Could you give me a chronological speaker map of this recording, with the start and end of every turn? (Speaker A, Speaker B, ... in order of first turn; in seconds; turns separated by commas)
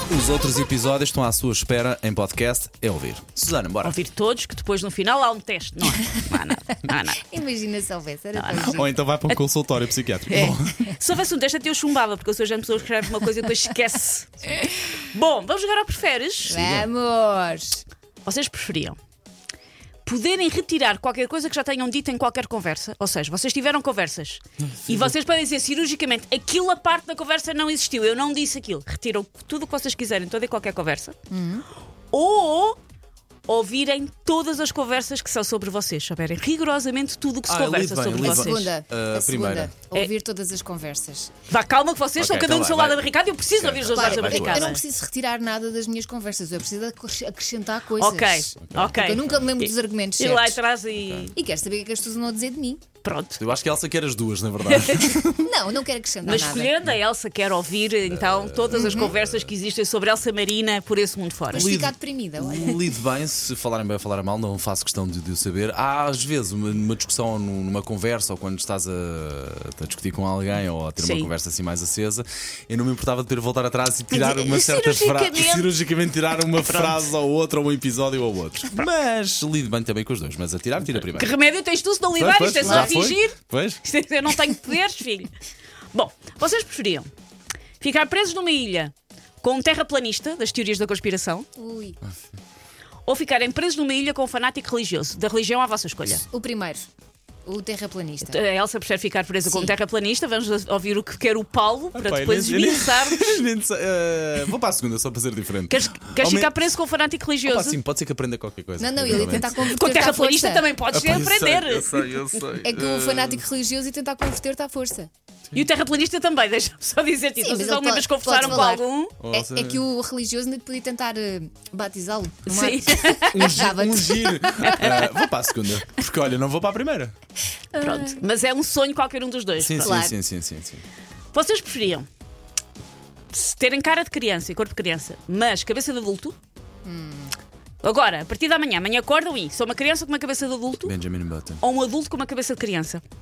Speaker A: 0.1-4.0, Speaker B: 3.8-7.2, Speaker C: 7.3-8.9, Speaker B: 8.3-9.4, Speaker A: 8.7-10.8, Speaker B: 10.3-16.6, Speaker A: 16.5-16.9, Speaker C: 16.5-17.8, Speaker B: 18.2-19.0, Speaker B: 20.0-31.2, Speaker A: 24.8-25.1, Speaker C: 31.3-31.6, Speaker B: 32.1-32.8, Speaker B: 33.5-38.7, Speaker A: 37.5-39.7, Speaker C: 38.2-41.3, Speaker B: 41.5-44.8, Speaker A: 42.2-44.7, Speaker C: 43.9-50.6, Speaker B: 48.0-51.3, Speaker A: 48.6-49.4, Speaker A: 50.9-51.3, Speaker C: 51.3-52.8, Speaker B: 53.0-53.4, Speaker A: 53.4-55.5, Speaker B: 54.7-55.2, Speaker C: 55.3-56.8, Speaker B: 56.2-61.8, Speaker A: 58.1-59.5, Speaker C: 58.7-59.1, Speaker C: 61.5-62.9, Speaker A: 61.5-81.3, Speaker B: 71.0-71.3, Speaker B: 74.1-75.7, Speaker B: 76.6-77.0, Speaker B: 81.1-85.3, Speaker A: 82.2-83.8, Speaker C: 82.6-83.0, Speaker B: 85.9-87.1, Speaker B: 87.8-91.5, Speaker C: 91.6-92.0, Speaker B: 93.1-96.3, Speaker C: 96.3-96.9, Speaker C: 97.5-98.4, Speaker B: 98.2-103.4, Speaker C: 99.5-99.7, Speaker A: 101.9-106.5, Speaker B: 105.7-107.8, Speaker A: 107.5-109.6, Speaker C: 108.8-110.7, Speaker B: 109.3-112.5, Speaker A: 110.9-113.4, Speaker C: 112.6-115.1, Speaker B: 115.5-119.2, Speaker C: 117.4-125.3, Speaker A: 119.2-119.8, Speaker B: 122.5-123.4, Speaker A: 123.3-127.1, Speaker C: 127.7-128.2, Speaker B: 127.8-130.1, Speaker A: 129.6-130.8, Speaker C: 129.8-130.2, Speaker B: 131.3-132.1, Speaker B: 133.3-136.3, Speaker C: 136.8-137.3, Speaker B: 137.8-140.9, Speaker A: 140.8-141.6, Speaker B: 141.6-143.0